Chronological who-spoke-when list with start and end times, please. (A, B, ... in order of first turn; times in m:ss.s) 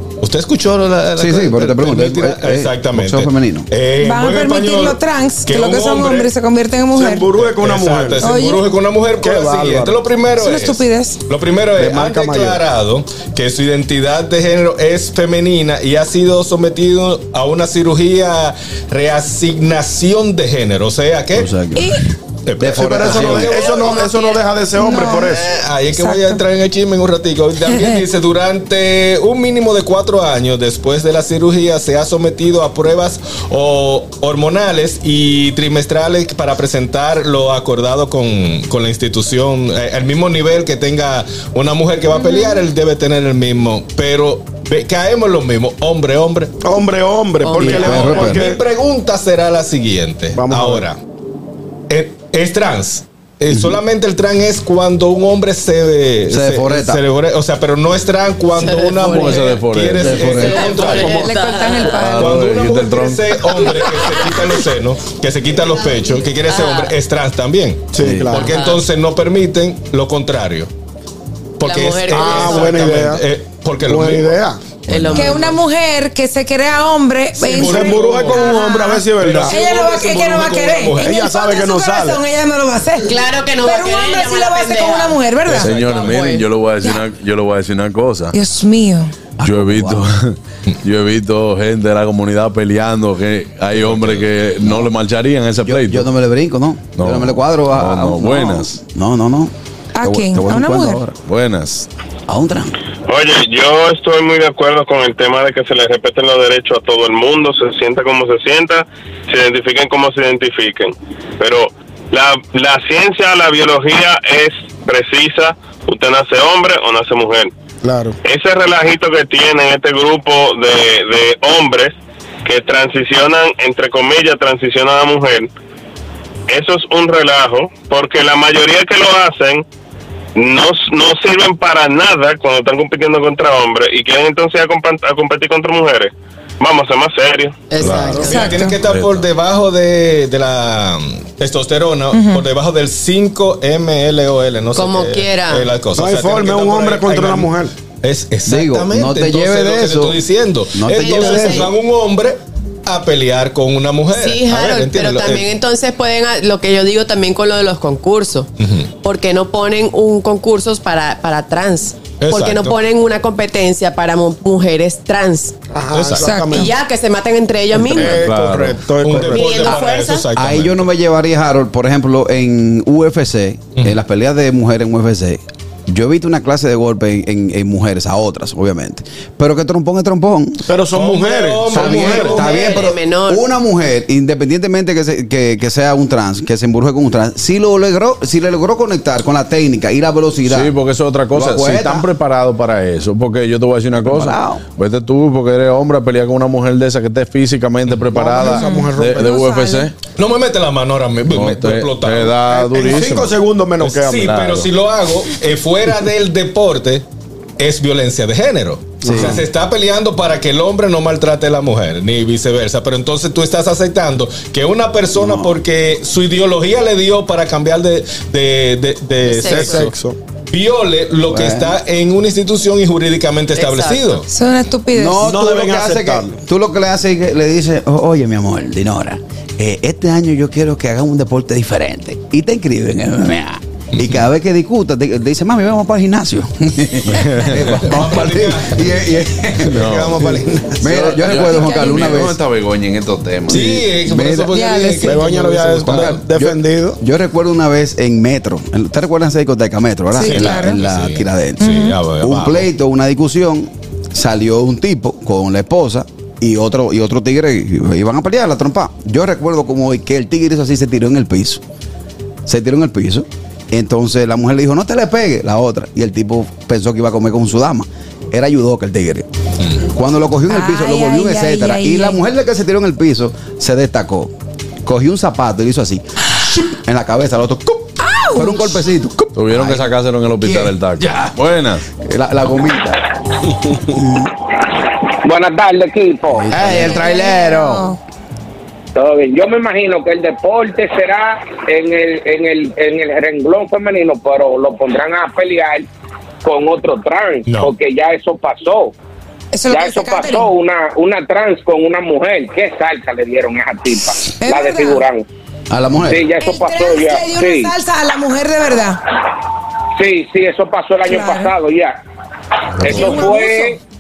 0:00.2-0:06.3 A
0:01.2-0:03.7 B
0:04.0-0:07.3 C
0:06.9-0:08.3 D
0:07.3-0:21.5 A
0:08.2-0:08.6 C
0:09.2-0:10.0 D
0:10.4-0:11.2 C
0:11.8-0:12.6 D
0:21.3-0:21.9 B
0:21.8-0:22.0 C
0:22.5-0:24.4 A
0:22.6-0:25.5 D
0:22.8-0:23.5 B
0:23.7-0:24.4 E
0:24.7-0:25.4 C
0:25.0-0:46.6 A
0:25.9-0:26.4 C
0:27.7-0:28.0 C
0:42.2-0:42.6 C
0:46.6-0:48.6 D
0:47.4-0:47.7 C
0:47.6-0:51.0 A
0:47.6-0:48.5 B
0:50.3-0:50.8 D
0:51.9-1:01.3 A
0:53.5-0:53.8 B
0:56.3-0:57.0 B
0:58.5-1:02.0 E
0:58.9-1:01.2 F
1:01.1-1:02.5 C
1:01.9-1:03.6 F
1:02.2-1:10.7 A
1:05.7-1:06.9 E
1:07.9-1:08.6 D
1:08.0-1:08.4 B
1:08.4-1:08.8 E
1:11.6-1:14.4 A
1:11.6-1:12.9 E
1:12.1-1:13.2 D
1:13.9-1:14.6 D
1:14.9-1:15.6 E
1:15.1-1:25.7 C
1:17.4-1:18.6 A
1:17.5-1:19.6 D
1:19.2-1:21.2 A
1:21.0-1:22.2 D
1:23.0-1:26.5 E
1:25.5-1:26.2 A
1:25.6-1:28.4 F
1:28.3-1:29.1 C
1:29.4-1:30.1 B
1:29.4-1:36.1 F
1:33.8-1:34.9 B
1:35.6-1:41.1 B
1:37.0-1:38.8 F
1:40.0-1:41.0 C
1:41.2-1:41.9 F
1:42.3-1:42.8 B
1:43.1-1:57.5 G
1:57.8-1:58.2 D
1:58.2-2:01.9 G
2:02.4-2:05.5 G
2:06.5-2:09.6 G
2:10.4-2:17.6 G
2:17.7-2:18.5 E
2:17.8-2:18.1 F
2:17.8-2:35.5 A
2:17.9-2:18.3 D
2:18.2-2:18.8 C
2:18.7-2:19.3 F
2:22.1-2:22.4 C
2:24.8-2:25.7 E
2:26.0-2:27.7 D
2:28.5-2:30.2 B
2:30.7-2:31.7 B
2:30.9-2:31.7 E
2:34.1-2:38.5 E
2:38.6-2:38.9 A
2:39.0-2:45.6 E
2:42.2-2:42.8 A
2:45.7-2:46.7 D
2:45.9-2:46.4 A
2:46.2-2:46.8 C
2:46.5-2:48.3 E
2:47.7-2:49.8 D
2:48.2-2:48.8 F
2:49.0-2:50.9 A
2:49.3-2:50.3 E
2:50.3-3:00.6 B
3:00.6-3:02.5 D
3:00.9-3:02.6 A
3:01.7-3:10.8 B
3:01.9-3:03.4 E
3:10.4-3:20.0 F
3:11.3-3:12.1 B
3:14.0-3:14.6 B
3:18.1-3:19.4 D
3:18.4-3:19.9 C
3:20.2-3:23.0 A
3:21.3-3:23.4 F
3:22.5-3:24.4 D
3:23.8-3:27.0 A
3:24.2-3:24.7 F
3:27.6-3:39.9 A
3:29.0-3:29.4 D
3:29.0-3:29.4 B
3:35.2-3:35.6 B
3:39.2-3:39.9 E
3:39.4-3:40.2 D
3:40.5-3:44.3 A
3:41.3-3:41.8 B
3:43.5-3:44.2 E
3:44.3-3:45.4 C
3:44.9-4:02.4 B
3:45.2-3:46.4 D
3:57.2-3:57.7 F
3:57.8-3:58.9 A
3:59.7-4:00.2 F
4:00.1-4:00.6 D
4:00.2-4:00.4 A
4:00.8-4:03.8 F
4:01.3-4:02.2 C
4:03.5-4:06.2 A
4:03.5-4:21.6 B
4:04.5-4:05.1 C
4:05.0-4:07.0 D
4:10.1-4:10.8 C
4:10.2-4:12.7 A
4:11.6-4:12.0 C
4:22.5-4:34.3 B
4:30.5-4:32.2 C
4:34.8-4:41.3 B
4:38.0-4:38.6 C
4:39.4-4:41.8 F
4:42.0-4:43.1 B
4:43.7-4:44.3 B
4:45.3-4:46.4 H
4:46.3-4:47.3 B
4:46.5-4:47.9 F
4:46.7-4:48.0 C
4:49.0-4:55.9 H
4:56.4-4:58.9 H
4:57.5-4:57.7 A
4:59.5-5:00.6 C
4:59.7-5:05.2 H
5:04.3-5:05.1 C
5:05.7-5:06.3 B
5:06.1-5:07.6 H
5:06.2-5:09.1 C
5:10.0-5:11.9 H
5:11.0-5:11.6 C
5:12.8-5:13.8 C
5:12.8-5:13.8 H
5:12.9-5:13.3 A